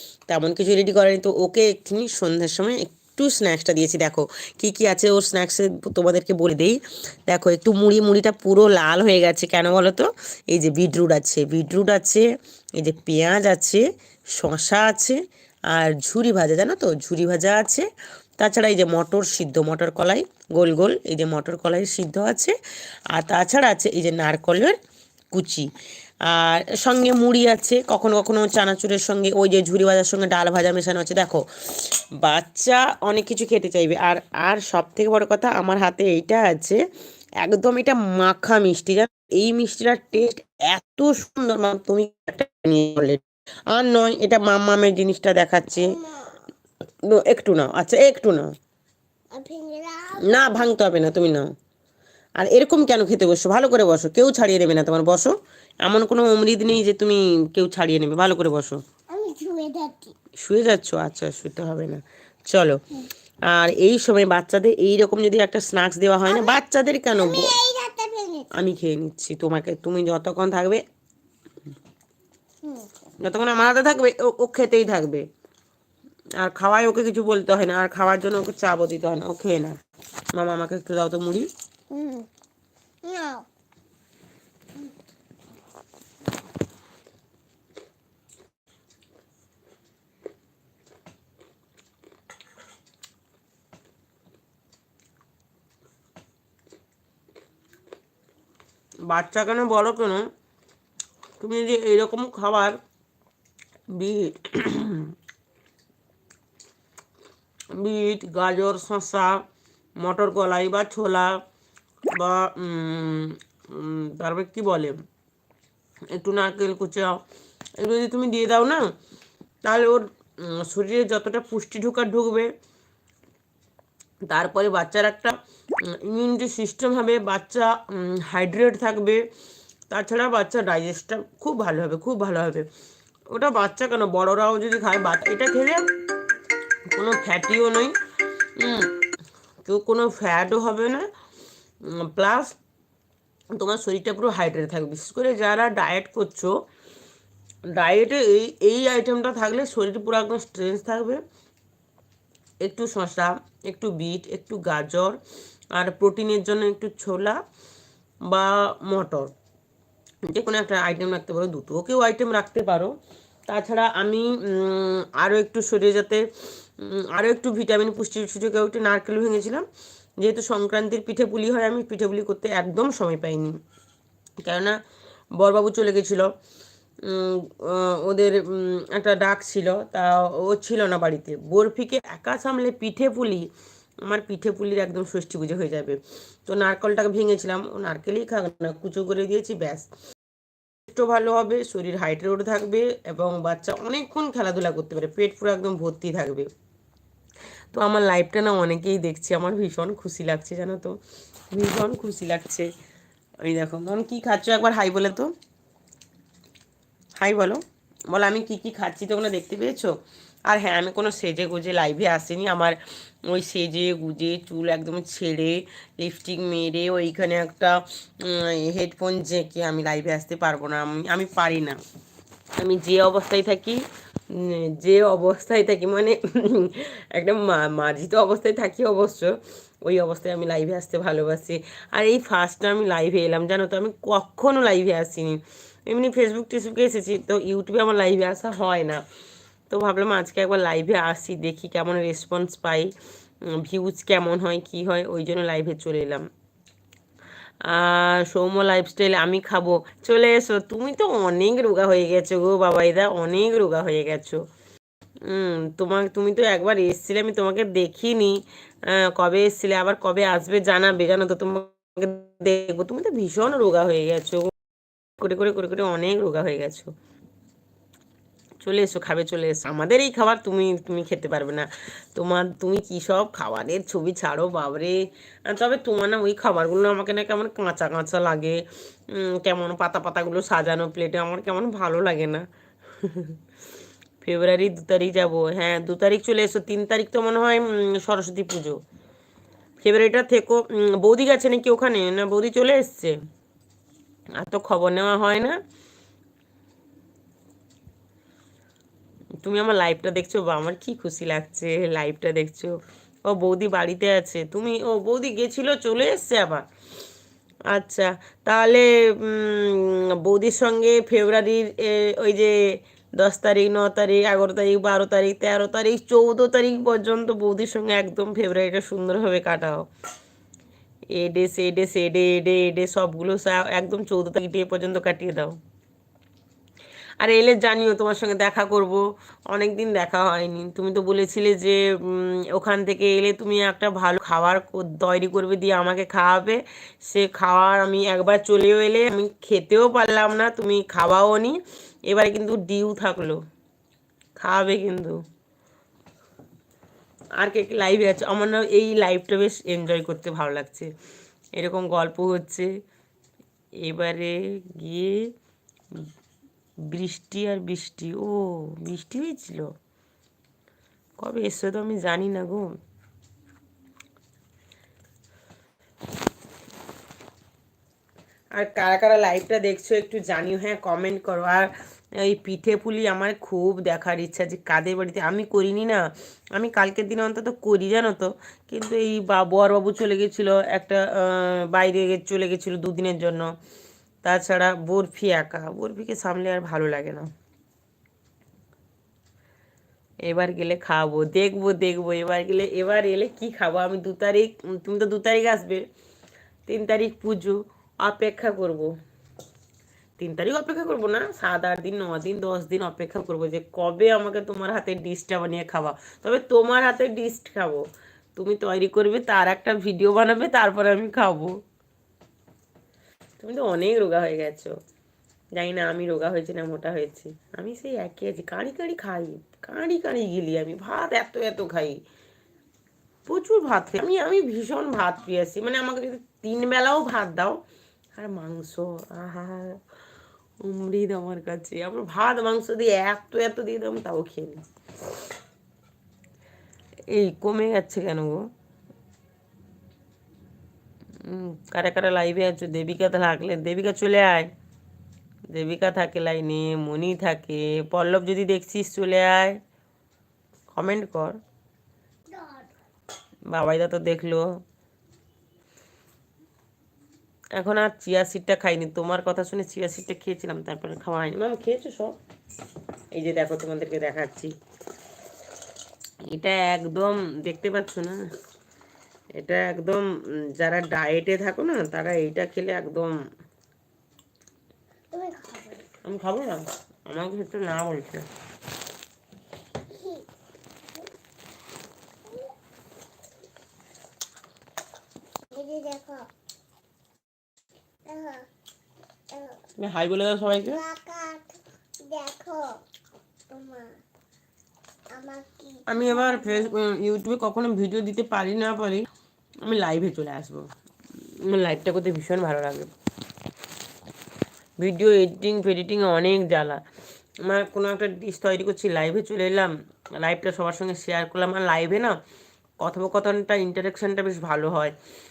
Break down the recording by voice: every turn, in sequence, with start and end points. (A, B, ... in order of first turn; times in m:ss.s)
0:00.3-0:12.3 A
0:12.8-0:17.9 A
0:18.4-0:22.6 A
0:23.1-0:24.8 A
0:25.3-0:25.7 A
0:26.3-0:36.8 A
0:37.4-0:46.0 A
0:45.8-0:46.3 B
0:47.1-0:48.5 A
0:49.3-0:50.7 B
0:50.2-0:51.5 A
0:52.4-0:58.8 A
0:59.1-1:00.1 B
1:00.4-1:02.8 A
1:03.5-1:07.6 A
1:06.2-1:06.6 B
1:07.2-1:08.5 B
1:08.5-1:10.8 A
1:12.6-1:12.9 B
1:13.2-1:15.3 A
1:16.4-1:19.8 A
1:20.3-1:21.5 A
1:21.9-1:22.3 B
1:23.0-1:23.4 B
1:39.1-1:40.2 A
1:41.4-1:42.8 A
1:43.9-1:45.1 A
1:47.7-1:49.4 A
1:50.0-1:51.4 A
1:52.1-1:55.0 A
1:56.1-1:57.2 A
1:57.8-1:58.9 A
1:59.6-2:02.5 A
2:04.3-2:09.3 A
2:09.9-2:12.7 A
2:13.3-2:15.9 A
2:16.9-2:18.0 A
2:18.6-2:19.0 A
2:19.6-2:21.1 A
2:21.8-2:22.6 A
2:23.6-2:26.6 A
2:27.7-2:31.2 A
2:32.6-2:35.2 A
2:35.7-2:37.4 A
2:38.3-2:39.3 A
2:40.2-2:42.9 A
2:43.5-2:49.6 A
2:50.2-2:53.6 A
2:54.4-2:54.8 A
2:55.4-2:56.3 A
2:57.0-3:03.5 A
3:04.0-3:09.9 A
3:10.9-3:16.5 A
3:17.7-3:21.0 A
3:21.5-3:22.7 A
3:23.4-3:25.3 A
3:27.2-3:30.0 A
3:30.5-3:41.8 A
3:42.6-3:59.0 A
3:59.7-4:02.9 A
4:03.5-4:06.3 A
4:07.6-4:14.4 A
4:15.2-4:24.5 A
4:25.2-4:26.9 A
4:28.6-4:42.5 A
4:43.0-4:43.4 A
4:44.2-4:48.8 A
4:49.8-4:53.2 A
4:54.4-4:55.6 A
4:59.4-5:06.7 A
5:07.7-5:12.6 A
5:13.2-5:19.9 A
5:21.1-5:25.6 A
5:27.2-5:43.4 A
5:44.4-5:45.2 A
5:47.4-5:50.9 A
5:51.5-5:52.7 A
5:53.8-5:55.3 A
5:56.9-5:59.7 A
6:01.2-6:02.7 A
6:08.5-6:23.5 A
6:24.2-6:27.3 A
6:30.2-6:35.9 A
6:36.7-6:38.9 A
6:40.2-6:51.6 A
6:53.4-6:54.8 A
6:55.6-7:02.0 A
7:03.3-7:07.6 A
7:08.2-7:09.8 A
7:10.6-7:14.6 A
7:17.1-7:18.4 A
7:21.2-7:24.5 A
7:25.5-7:29.6 A
7:30.7-7:31.4 A
7:32.3-7:32.7 B
7:33.5-7:34.5 A
7:37.5-7:42.2 A
7:43.1-7:44.5 A
7:46.3-7:48.2 A
7:49.4-7:53.1 A
7:55.1-7:55.9 B
7:56.0-7:58.2 A
7:59.9-8:00.2 B
8:05.5-8:06.3 B
8:08.0-8:08.4 B
8:09.3-8:09.6 B
8:09.8-8:10.8 A
8:10.5-8:12.8 B
8:13.5-8:13.9 B
8:15.1-8:16.7 B
8:15.9-8:19.1 A
8:19.6-8:20.6 A
8:21.2-8:22.9 A
8:24.8-8:26.8 A
8:27.4-8:32.2 A
8:32.8-8:35.0 A